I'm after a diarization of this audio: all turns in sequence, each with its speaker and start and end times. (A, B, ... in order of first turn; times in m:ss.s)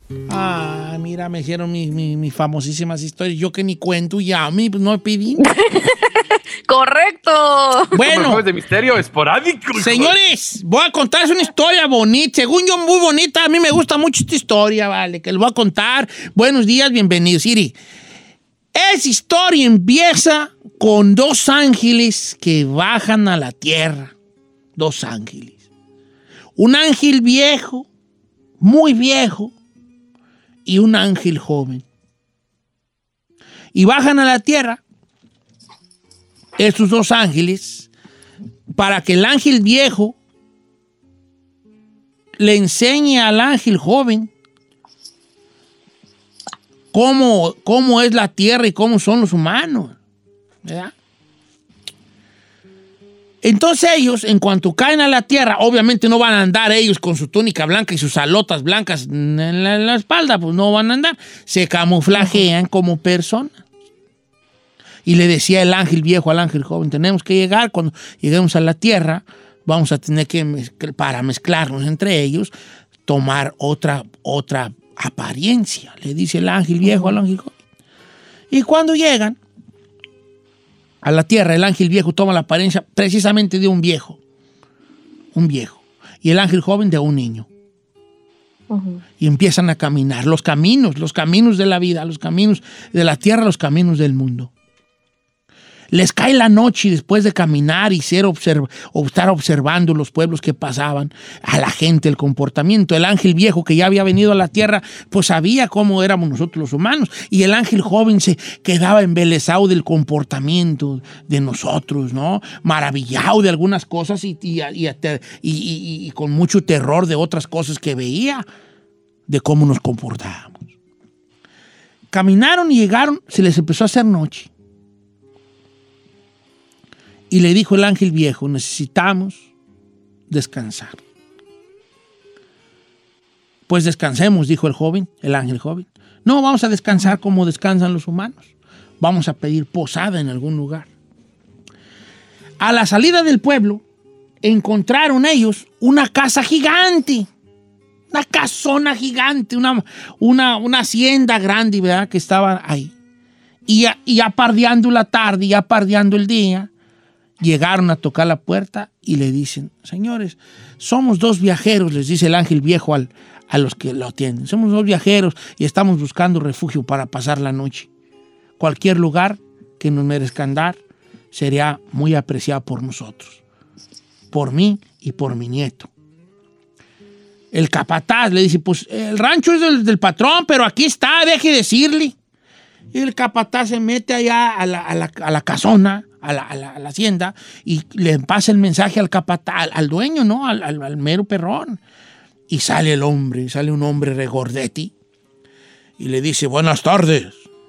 0:00.3-0:05.5 A
0:05.4-0:07.9 B
0:07.9-0:08.4 A
0:08.0-0:10.1 C
0:09.8-0:17.7 A
0:18.7-0:24.1 A
0:24.8-0:25.6 A
0:26.6-0:27.9 A
0:28.6-0:29.5 A
0:30.6-0:31.8 A
0:33.7-0:34.8 A
0:36.6-0:37.9 A
0:38.7-0:40.2 A
0:42.4-0:44.3 A
0:46.9-0:50.0 A
0:50.6-0:50.9 A
0:53.4-1:03.5 A
1:05.0-1:12.5 A
1:13.0-1:17.5 A
1:16.8-1:17.1 B
1:18.5-1:19.4 A
1:21.0-1:24.2 A
1:25.3-1:27.5 A
1:28.7-1:29.0 B
1:29.2-1:34.5 A
1:35.9-1:58.4 A
1:59.3-2:00.7 A
2:02.1-2:04.5 A
2:07.3-2:09.4 A
2:10.3-2:11.0 A
2:13.7-2:18.5 A
2:19.0-2:20.9 A
2:22.6-2:23.8 A
2:24.4-2:27.3 A
2:28.1-2:32.9 A
2:33.6-2:36.7 A
2:37.4-2:47.9 A
2:48.6-2:50.8 A
2:51.3-2:53.4 A
2:54.3-2:55.9 A
2:57.5-3:02.1 A
3:02.9-3:11.8 A
3:12.5-3:14.9 A
3:16.0-3:17.4 A